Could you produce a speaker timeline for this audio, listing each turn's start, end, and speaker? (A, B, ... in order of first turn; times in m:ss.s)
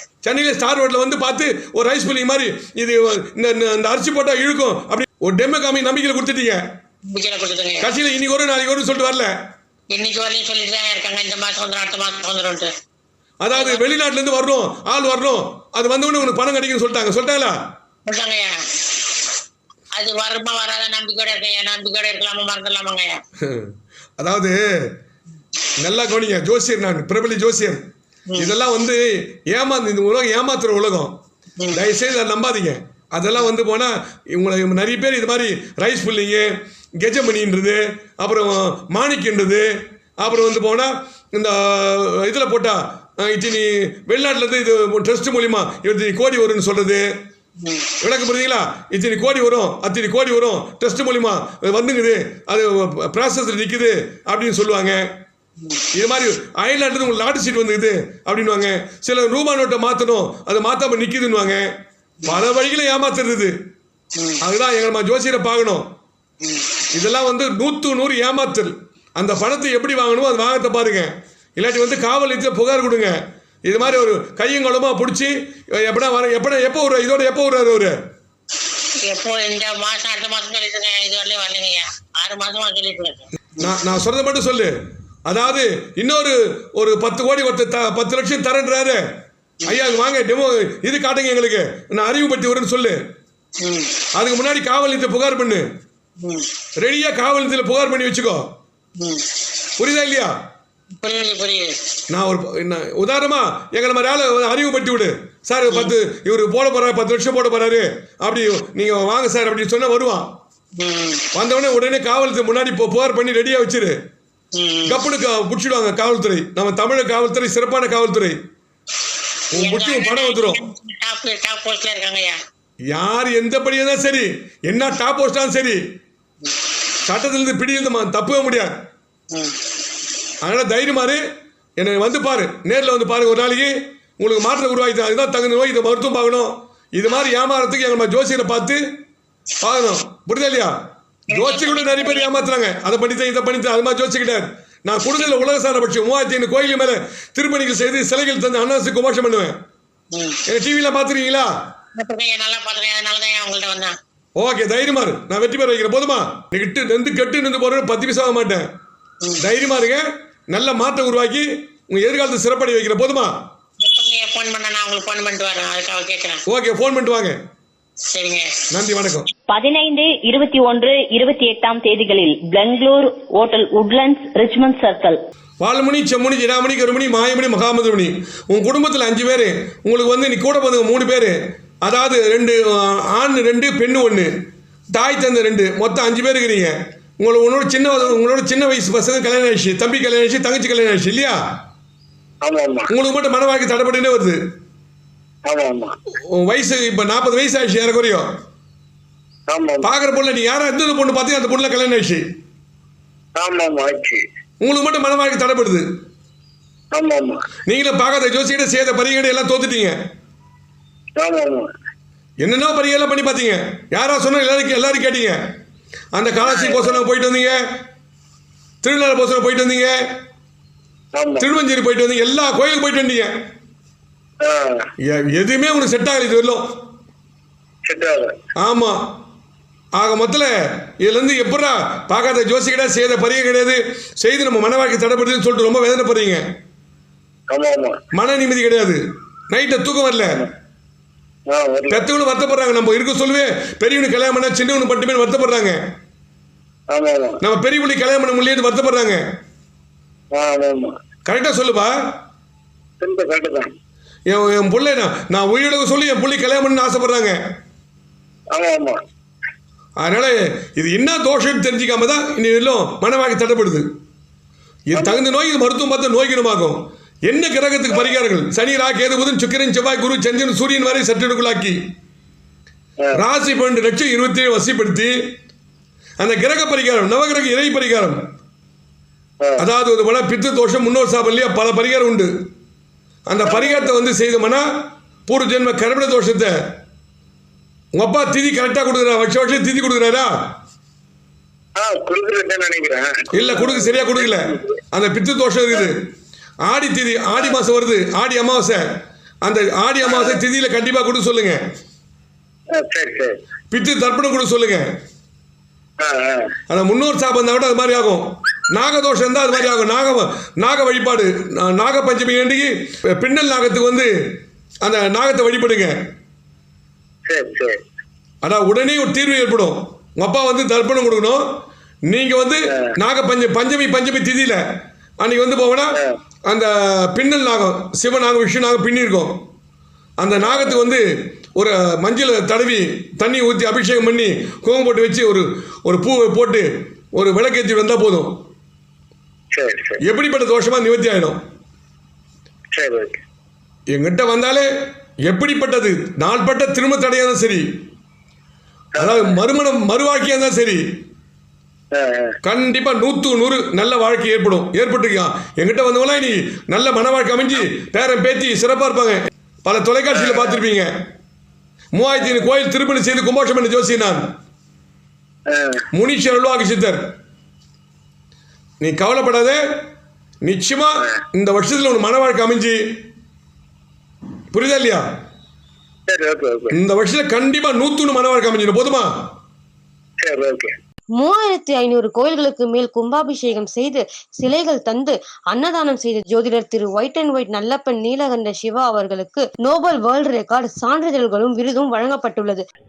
0:00.2-0:06.6 A
0:07.1-0:07.9 B
0:07.8-0:09.3 A
0:09.9-0:12.7 B
0:13.4-0:17.6 A
0:13.5-0:13.8 B
0:18.1-0:18.5 B
0:20.0-0:23.2 B
0:23.4-0:24.9 A
0:25.8-0:27.8 A
0:28.4-0:31.2 A
0:31.6-0:31.9 B
0:31.7-0:39.7 A
0:40.2-0:47.0 A
0:47.6-0:47.9 B
0:48.0-0:55.0 A
0:55.6-0:55.9 B
0:55.9-1:01.7 A
1:02.3-1:03.6 A
1:04.4-1:05.9 A
1:06.4-1:06.7 B
1:06.9-1:18.0 A
1:19.0-1:23.7 B
1:23.6-1:24.7 A
1:25.3-1:29.0 A
1:29.7-1:33.0 A
1:33.6-1:34.0 B
1:34.2-1:35.7 A
1:36.2-1:36.5 B
1:36.8-1:38.5 A
1:39.0-1:39.3 B
1:39.8-1:40.3 A
1:41.0-1:41.8 B
1:42.1-1:50.3 A
1:50.8-1:51.3 B
1:51.3-1:54.0 A
1:54.6-1:55.0 B
1:54.9-1:58.4 A
1:59.6-2:00.6 A
1:59.6-2:02.4 B
2:02.9-2:05.8 A
2:07.1-2:08.7 A
2:09.3-2:09.6 B
2:10.4-2:11.2 A
2:11.8-2:18.8 A
2:19.6-2:20.8 A
2:21.3-2:29.6 A
2:21.3-2:22.5 B
2:30.1-2:30.4 B
2:30.5-2:31.5 A
2:32.0-2:34.0 B
2:34.4-2:38.7 A
2:39.4-2:43.3 A
2:43.8-2:46.4 B
2:46.5-2:47.4 A
2:48.1-2:48.5 B
2:48.7-2:49.3 A
2:49.5-2:55.2 C
2:55.6-3:04.3 A
3:05.0-3:11.4 A
3:12.4-3:12.9 D
3:12.9-3:14.4 A
3:15.5-3:16.0 D
3:16.3-3:18.3 A
3:19.5-3:19.9 D
3:19.8-3:22.2 A
3:23.4-3:24.2 D
3:24.6-3:25.8 A
3:26.9-3:27.4 D
3:27.7-3:30.0 A
3:31.2-3:31.7 D
3:32.4-3:35.4 A
3:36.2-3:37.6 A
3:36.4-3:37.0 D
3:38.8-3:39.9 A
3:41.2-3:41.5 D
3:41.4-3:43.3 A
3:44.4-3:44.8 D
3:45.1-3:46.7 A
3:47.9-3:48.4 D
3:48.6-3:49.0 A
3:50.0-3:56.4 A
3:57.5-3:58.0 D
3:58.1-3:59.0 A
3:59.5-4:00.4 A
4:01.5-4:02.1 D
4:01.9-4:05.8 A
4:06.9-4:07.4 D
4:07.4-4:09.2 A
4:10.3-4:11.0 D
4:11.3-4:11.9 A
4:13.0-4:13.7 D
4:14.3-4:17.4 A
4:18.5-4:19.0 D
4:20.0-4:23.9 A
4:24.9-4:31.8 A
4:25.0-4:25.2 D
4:33.2-4:35.1 A
4:36.2-4:38.2 A
4:39.6-4:42.3 A
4:43.3-4:44.6 A
4:43.4-4:43.8 D
4:45.3-4:46.6 A
4:48.0-4:50.3 A
4:51.8-4:54.7 D
4:53.3-4:56.0 A
4:56.7-4:58.8 A
4:59.4-5:01.6 A
5:00.0-5:00.4 D
5:02.8-5:03.4 D
5:03.7-5:04.9 A
5:06.0-5:06.5 D
5:06.7-5:14.1 A
5:14.8-5:15.9 A
5:17.3-5:17.8 D
5:18.4-5:21.4 A
5:22.1-5:24.6 A
5:25.2-5:25.9 A
5:26.5-5:29.4 A
5:30.2-5:31.0 A
5:30.4-5:30.8 D
5:31.6-5:38.3 A
5:39.6-5:40.0 D
5:40.0-5:41.4 A
5:42.8-5:43.2 D
5:43.9-5:44.7 A
5:45.3-5:47.6 A
5:49.0-5:49.4 D
5:49.0-5:50.8 A
5:51.9-5:52.4 D
5:52.4-6:00.9 A
6:00.2-6:00.5 D
6:02.0-6:04.2 A
6:05.5-6:05.8 D
6:05.9-6:07.0 A
6:08.8-6:09.6 A
6:10.5-6:12.8 A
6:14.5-6:15.0 A
6:16.1-6:16.8 D
6:16.7-6:19.1 A
6:20.2-6:20.7 D
6:21.2-6:32.6 E